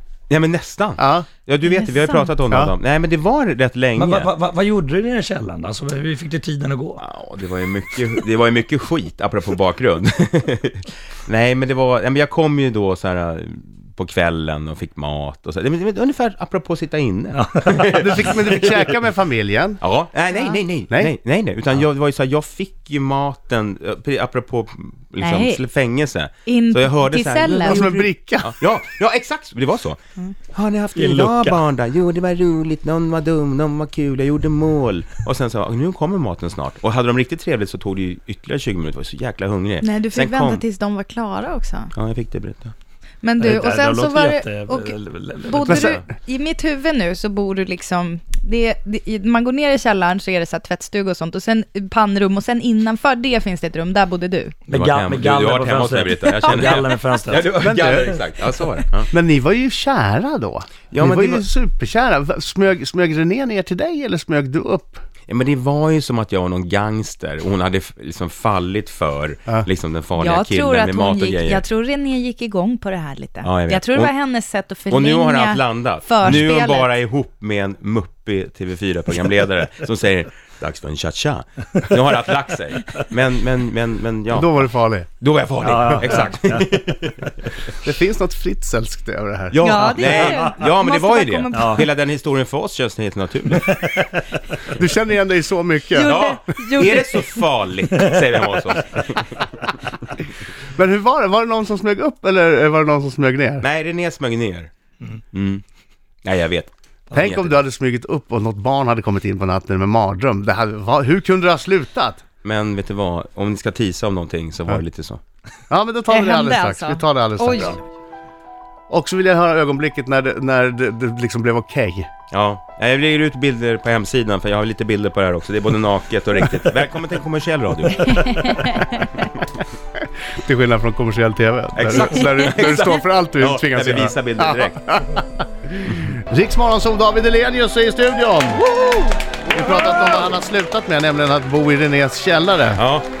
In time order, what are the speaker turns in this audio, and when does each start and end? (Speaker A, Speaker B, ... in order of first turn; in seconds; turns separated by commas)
Speaker A: 0.3-4.3, Speaker B: 1.0-1.3, Speaker C: 1.7-2.3, Speaker D: 4.0-7.0, Speaker A: 7.0-18.8, Speaker D: 17.3-18.4, Speaker B: 17.9-19.8, Speaker A: 19.8-30.0, Speaker C: 25.2-25.6, Speaker C: 26.5-27.9, Speaker B: 27.7-28.5, Speaker A: 30.5-40.6, Speaker D: 30.9-31.6, Speaker C: 39.8-41.9, Speaker A: 41.9-42.7, Speaker C: 43.2-54.6, Speaker D: 43.4-45.9, Speaker D: 54.7-57.5, Speaker A: 54.7-59.1, Speaker B: 57.5-58.1, Speaker B: 59.1-65.0, Speaker A: 60.9-61.5, Speaker A: 65.3-71.6, Speaker C: 70.2-76.9, Speaker A: 73.4-74.1, Speaker A: 74.9-84.7, Speaker B: 84.3-85.1, Speaker A: 85.2-87.5, Speaker D: 85.6-86.7, Speaker B: 87.8-89.6, Speaker A: 89.5-93.8, Speaker C: 89.6-91.8, Speaker D: 90.1-90.7, Speaker D: 91.5-91.8, Speaker D: 93.6-94.0, Speaker B: 94.7-96.3, Speaker C: 95.9-97.4, Speaker A: 96.0-99.7, Speaker B: 100.7-103.7, Speaker A: 103.6-104.7, Speaker A: 105.3-105.6, Speaker A: 106.2-107.6, Speaker B: 107.1-112.2, Speaker A: 112.4-115.2, Speaker B: 115.7-117.8, Speaker C: 116.1-117.8, Speaker B: 118.9-122.1, Speaker A: 122.3-128.8, Speaker C: 128.1-129.1, Speaker B: 130.4-138.7, Speaker A: 131.8-134.9, Speaker C: 138.6-140.3, Speaker B: 139.5-142.8, Speaker A: 142.7-143.1